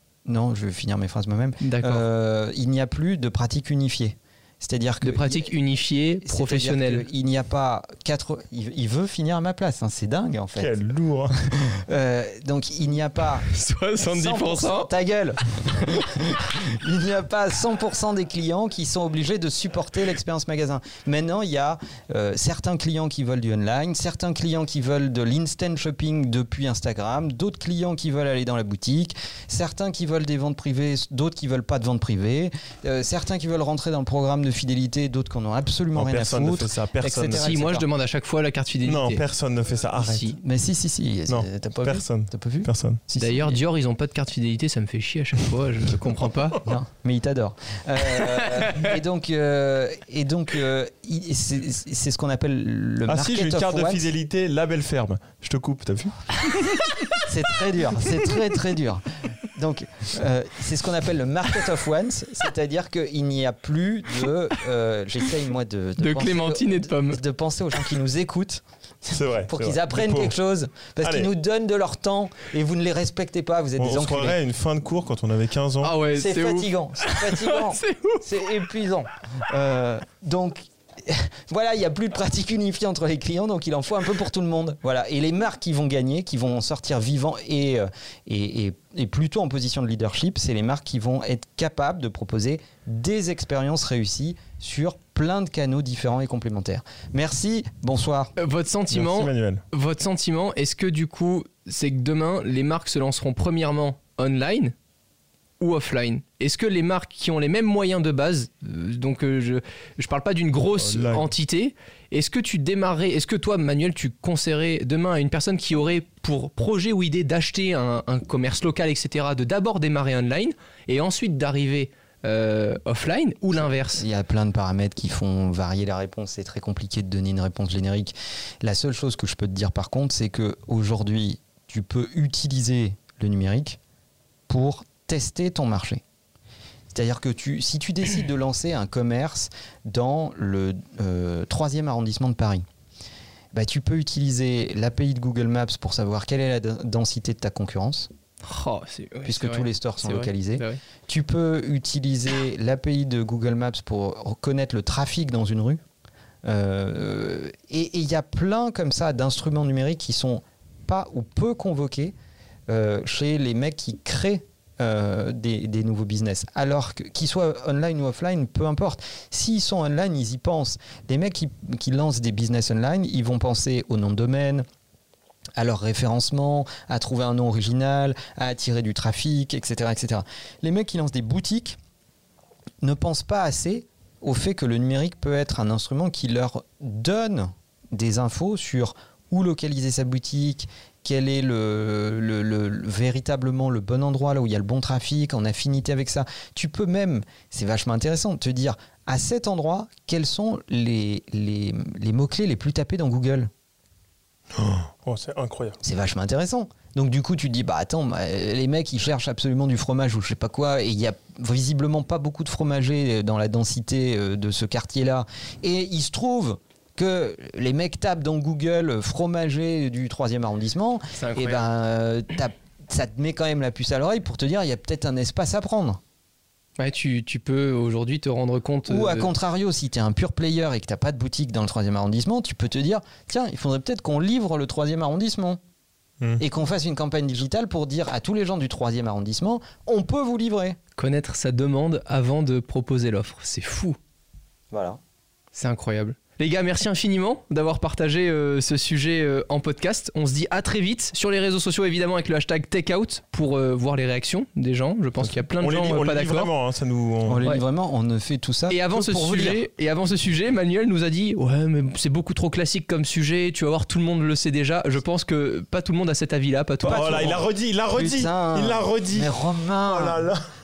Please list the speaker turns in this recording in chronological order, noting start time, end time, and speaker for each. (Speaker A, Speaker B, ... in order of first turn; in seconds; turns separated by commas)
Speaker A: 0.3-5.5, Speaker B: 1.6-2.0, Speaker B: 5.0-7.1, Speaker A: 6.2-10.7, Speaker C: 10.6-11.3, Speaker A: 11.3-13.5, Speaker B: 13.5-14.9, Speaker A: 14.0-37.9, Speaker C: 36.0-37.6, Speaker B: 37.2-39.2, Speaker C: 38.8-40.4, Speaker B: 40.0-40.3, Speaker A: 40.3-43.6, Speaker C: 41.3-43.0, Speaker B: 43.2-46.6, Speaker A: 46.6-54.1, Speaker C: 53.1-56.3, Speaker B: 56.7-57.2, Speaker A: 57.3-74.4, Speaker B: 66.0-67.2, Speaker C: 69.1-70.3, Speaker C: 71.0-71.3, Speaker C: 73.8-76.0, Speaker B: 75.8-78.3, Speaker A: 76.1-98.3, Speaker B: 98.4-104.8, Speaker C: 98.9-99.6, Speaker B: 105.6-124.0, Speaker C: 110.8-111.3, Speaker A: 123.6-133.8, Speaker A: 134.5-136.0, Speaker A: 136.9-142.7, Speaker A: 143.5-148.1, Speaker B: 148.4-150.8, Speaker A: 149.2-155.8, Speaker A: 156.4-162.1, Speaker A: 162.7-174.7, Speaker A: 175.6-181.8, Speaker A: 182.8-203.5, Speaker C: 204.5-205.8, Speaker A: 205.8-226.0, Speaker B: 221.1-221.6, Speaker B: 226.8-229.3, Speaker A: 228.9-235.6, Speaker A: 236.4-240.8, Speaker B: 241.0-244.0, Speaker A: 244.7-245.0, Speaker B: 245.5-256.5, Speaker C: 255.6-257.4, Speaker A: 257.3-259.6, Speaker B: 258.7-267.4, Speaker A: 266.8-270.2, Speaker C: 266.9-269.4, Speaker C: 269.9-270.4